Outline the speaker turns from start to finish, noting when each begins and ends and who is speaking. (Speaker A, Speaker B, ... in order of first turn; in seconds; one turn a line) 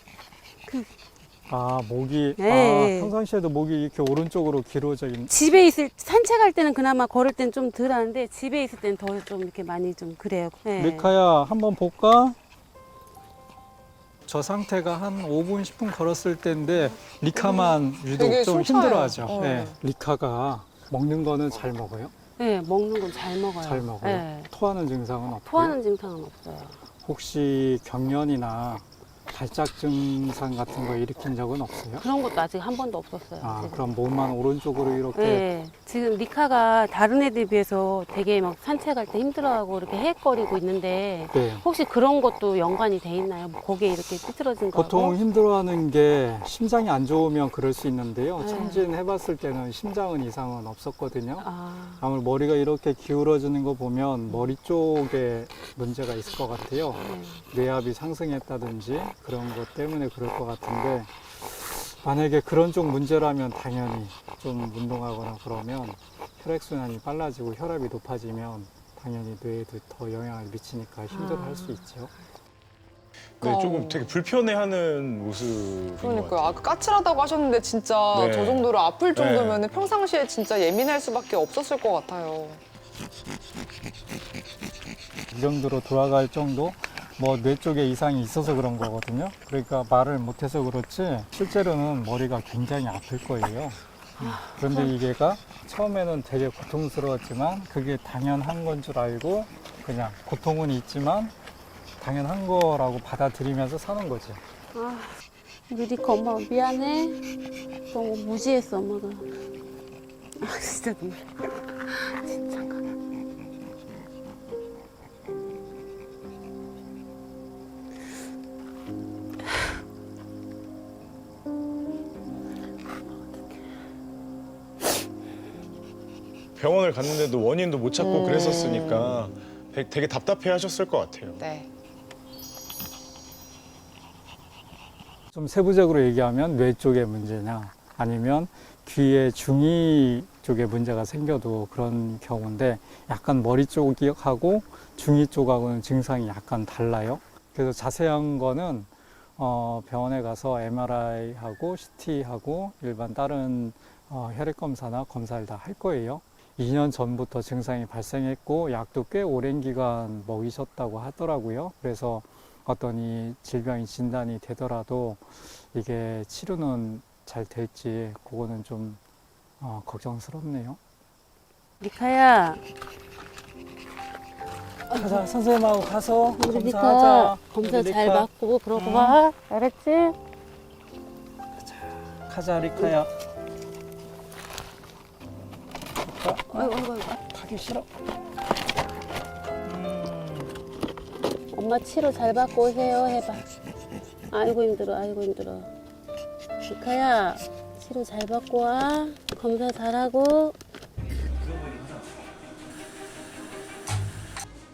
Speaker A: 1.5-5.3
Speaker B: 2.4-3.1
Speaker B: 5.3-11.1
Speaker A: 10.8-12.4
Speaker A: 14.2-22.1
Speaker C: 17.3-19.8
Speaker B: 22.4-24.5
Speaker A: 23.6-25.8
Speaker B: 25.5-26.8
Speaker A: 27.0-32.0
Speaker B: 32.0-33.9
Speaker A: 33.4-35.5
Speaker B: 35.1-45.2
Speaker A: 41.3-41.6
Speaker A: 44.7-51.5
Speaker B: 48.4-48.9
Speaker B: 51.4-52.0
Speaker A: 52.0-72.1
Speaker B: 57.0-57.4
Speaker B: 71.1-71.9
Speaker C: 73.4-74.2
Speaker D: 73.4-76.6
Speaker C: 76.0-82.6
Speaker D: 78.1-79.6
Speaker A: 85.3-101.3
Speaker B: 94.2-94.9
Speaker A: 102.0-104.4
Speaker B: 104.7-105.2
Speaker B: 105.7-107.2
Speaker B: 107.9-109.3
Speaker B: 110.4-112.9
Speaker D: 126.6-131.4
Speaker C: 128.0-129.2
Speaker C: 131.4-131.7
Speaker A: 135.3-169.0
Speaker A: 169.6-170.8
Speaker B: 171.8-172.6
Speaker A: 174.9-179.2
Speaker B: 174.9-175.2
Speaker B: 176.4-180.2
Speaker A: 181.6-183.1
Speaker A: 186.0-187.9
Speaker B: 186.5-187.2
Speaker A: 189.7-190.5
Speaker B: 191.5-193.4
Speaker B: 194.3-195.7
Speaker B: 196.6-200.6